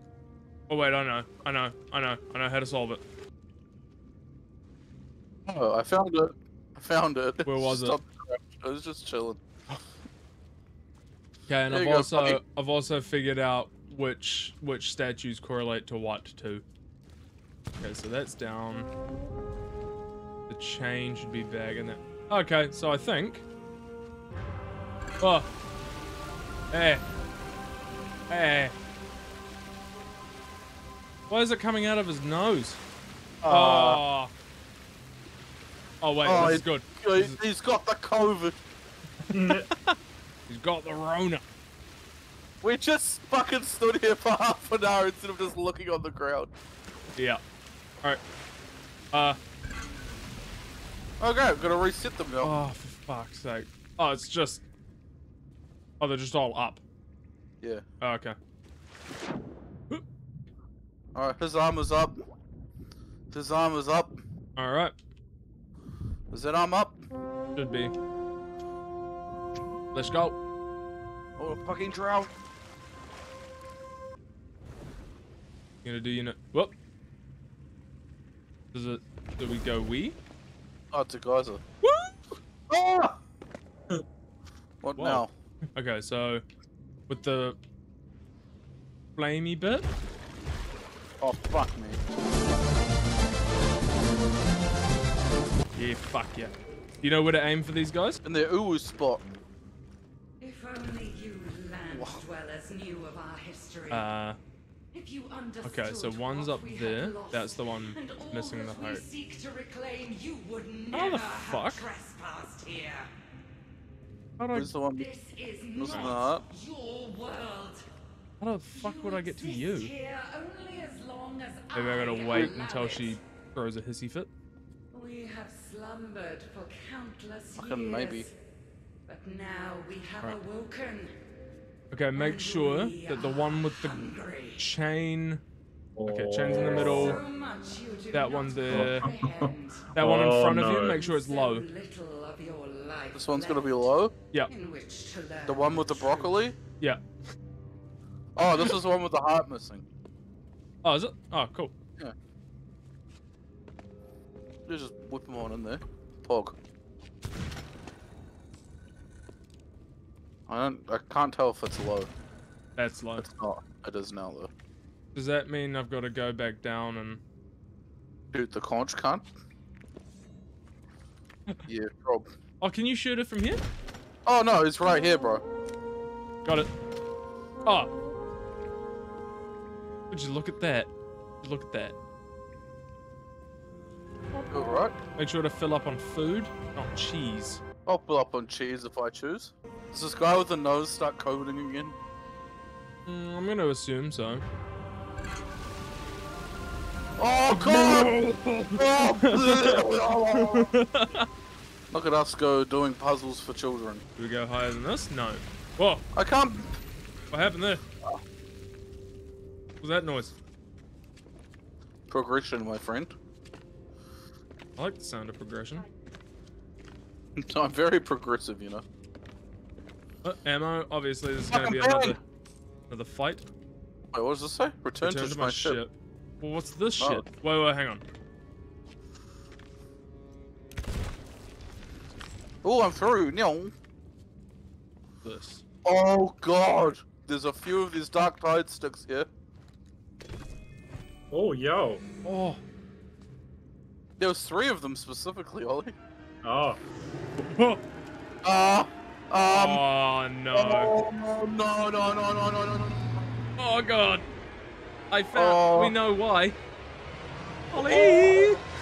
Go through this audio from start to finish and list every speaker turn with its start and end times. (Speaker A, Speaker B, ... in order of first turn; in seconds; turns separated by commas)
Speaker A: 0.7-3.0, Speaker B: 5.5-9.4, Speaker A: 7.4-8.0, Speaker A: 11.5-16.6, Speaker B: 11.7-12.4, Speaker A: 17.8-18.9, Speaker A: 20.5-23.4, Speaker A: 25.2-25.5, Speaker A: 26.7-27.0, Speaker A: 28.3-28.7, Speaker A: 31.3-32.8, Speaker B: 33.4-34.0, Speaker A: 33.5-34.3, Speaker A: 36.0-37.4, Speaker B: 36.2-38.6, Speaker A: 39.3-39.9, Speaker C: 39.3-39.7, Speaker A: 40.5-41.4, Speaker B: 42.6-46.5, Speaker A: 49.1-49.4, Speaker B: 51.2-52.6, Speaker A: 52.4-54.6, Speaker A: 56.0-56.8, Speaker A: 58.0-58.4, Speaker B: 61.1-62.2, Speaker B: 63.3-64.2, Speaker A: 64.6-64.9, Speaker B: 66.3-67.0, Speaker A: 67.5-67.9, Speaker A: 69.9-70.4, Speaker B: 71.4-72.3, Speaker A: 75.8-76.7, Speaker A: 78.7-80.2, Speaker B: 80.9-81.6, Speaker A: 81.8-82.1, Speaker B: 82.7-83.2, Speaker B: 84.8-85.3, Speaker A: 85.0-86.4, Speaker A: 87.1-87.6, Speaker A: 89.1-89.9, Speaker B: 91.2-92.0, Speaker A: 95.7-98.2, Speaker B: 98.2-99.2, Speaker D: 100.4-104.1, Speaker B: 101.9-102.2, Speaker A: 103.9-104.4, Speaker D: 104.9-113.1, Speaker A: 105.6-109.0, Speaker A: 110.9-111.8, Speaker A: 114.4-114.7, Speaker B: 114.5-115.1, Speaker D: 114.9-117.8, Speaker B: 115.8-116.4, Speaker A: 115.9-116.2, Speaker A: 118.4-119.9, Speaker D: 118.7-123.2, Speaker A: 121.7-124.3, Speaker B: 122.3-122.5, Speaker D: 124.9-128.3, Speaker B: 127.6-128.3, Speaker D: 129.1-131.1, Speaker A: 131.9-135.4, Speaker D: 132.1-134.7, Speaker C: 135.9-137.2, Speaker A: 136.1-137.2, Speaker D: 136.5-139.9, Speaker A: 138.1-139.1, Speaker C: 138.7-141.0, Speaker A: 139.9-141.7, Speaker D: 140.8-143.7, Speaker B: 143.1-144.1, Speaker D: 144.5-146.4, Speaker B: 145.5-146.6, Speaker B: 148.3-149.8, Speaker A: 150.8-151.7, Speaker B: 154.7-156.6, Speaker B: 160.5-162.1, Speaker A: 162.8-163.2, Speaker B: 163.2-164.5, Speaker A: 165.1-167.2, Speaker B: 168.3-169.2, Speaker B: 171.7-172.3, Speaker A: 172.6-173.6, Speaker B: 174.2-175.4, Speaker A: 180.1-181.9, Speaker B: 184.5-185.0, Speaker A: 185.2-187.6, Speaker B: 187.8-191.9, Speaker A: 193.1-194.4, Speaker B: 197.2-198.1, Speaker A: 197.5-201.3, Speaker B: 198.8-200.7, Speaker B: 201.9-204.0, Speaker A: 204.2-206.0, Speaker B: 206.1-206.8, Speaker A: 207.3-207.8, Speaker A: 209.8-210.3, Speaker B: 212.1-213.1, Speaker A: 214.8-215.8, Speaker B: 217.4-218.8, Speaker A: 220.2-222.2, Speaker B: 221.5-222.2, Speaker A: 222.9-223.4, Speaker B: 224.1-225.8, Speaker A: 225.0-228.0, Speaker B: 227.0-227.2, Speaker B: 232.6-233.7, Speaker A: 235.2-235.6, Speaker B: 235.8-239.3, Speaker C: 241.3-242.0, Speaker A: 242.2-242.6, Speaker B: 244.2-245.9, Speaker C: 246.4-246.8, Speaker A: 247.4-247.8, Speaker B: 248.4-249.8, Speaker A: 249.4-250.9, Speaker B: 250.5-253.2, Speaker A: 253.6-254.2, Speaker A: 255.1-256.6, Speaker B: 255.3-255.9, Speaker A: 257.7-258.6, Speaker B: 257.7-258.5